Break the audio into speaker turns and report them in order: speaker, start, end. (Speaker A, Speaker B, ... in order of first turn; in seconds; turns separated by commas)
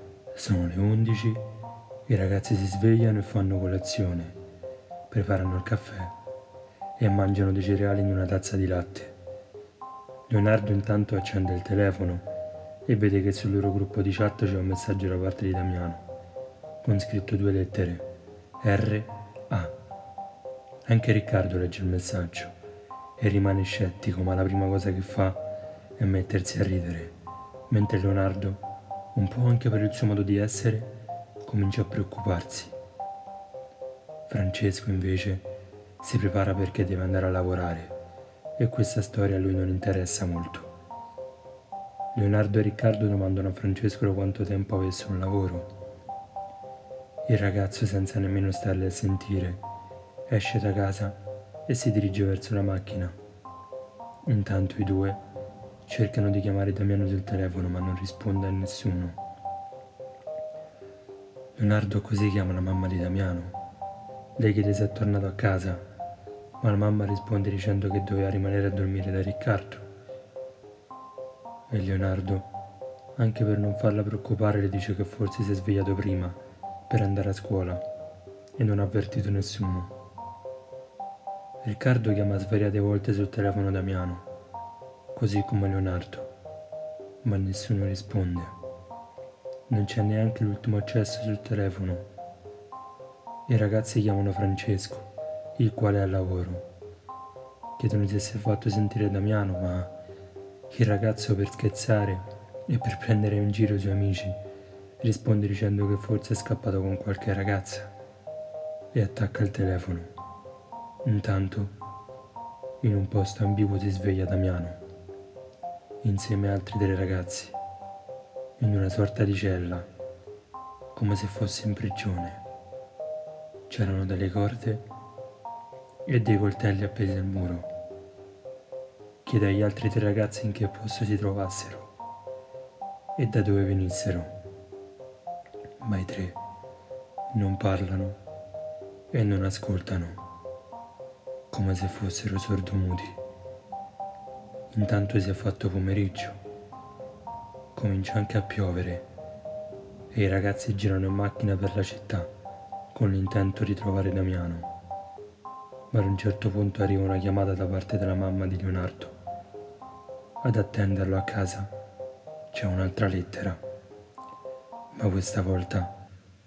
Speaker A: 0.3-1.5, Speaker A: 2.1-4.4, Speaker A: 5.1-6.2, Speaker A: 7.0-9.2, Speaker A: 10.3-12.2, Speaker A: 12.9-16.0, Speaker A: 16.8-19.8, Speaker A: 20.9-22.5, Speaker A: 23.2-27.1, Speaker A: 27.7-28.6, Speaker A: 29.1-32.8, Speaker A: 34.3-35.5, Speaker A: 36.0-37.9, Speaker A: 38.6-40.7, Speaker A: 42.1-45.7, Speaker A: 47.3-49.6, Speaker A: 50.3-53.2, Speaker A: 54.2-55.2, Speaker A: 55.9-59.2, Speaker A: 61.6-63.6, Speaker A: 64.4-65.8, Speaker A: 66.6-69.9, Speaker A: 71.7-72.5, Speaker A: 73.2-77.8, Speaker A: 78.6-79.9, Speaker A: 81.6-84.3, Speaker A: 85.1-86.3, Speaker A: 87.2-88.5, Speaker A: 89.7-92.1, Speaker A: 93.5-96.7, Speaker A: 97.8-99.9, Speaker A: 100.7-104.4, Speaker A: 105.0-107.9, Speaker A: 108.9-110.1, Speaker A: 111.0-111.8, Speaker A: 112.8-114.8, Speaker A: 116.0-117.6, Speaker A: 118.6-119.9, Speaker A: 120.9-122.4, Speaker A: 123.7-124.9, Speaker A: 126.1-127.7, Speaker A: 129.2-131.9, Speaker A: 133.2-134.3, Speaker A: 135.8-136.4, Speaker A: 137.3-138.2, Speaker A: 139.1-140.2, Speaker A: 141.5-143.2, Speaker A: 144.7-146.4, Speaker A: 147.8-149.1, Speaker A: 150.1-152.3, Speaker A: 152.9-154.7, Speaker A: 155.9-159.1, Speaker A: 160.4-161.7, Speaker A: 162.5-163.6, Speaker A: 164.9-166.0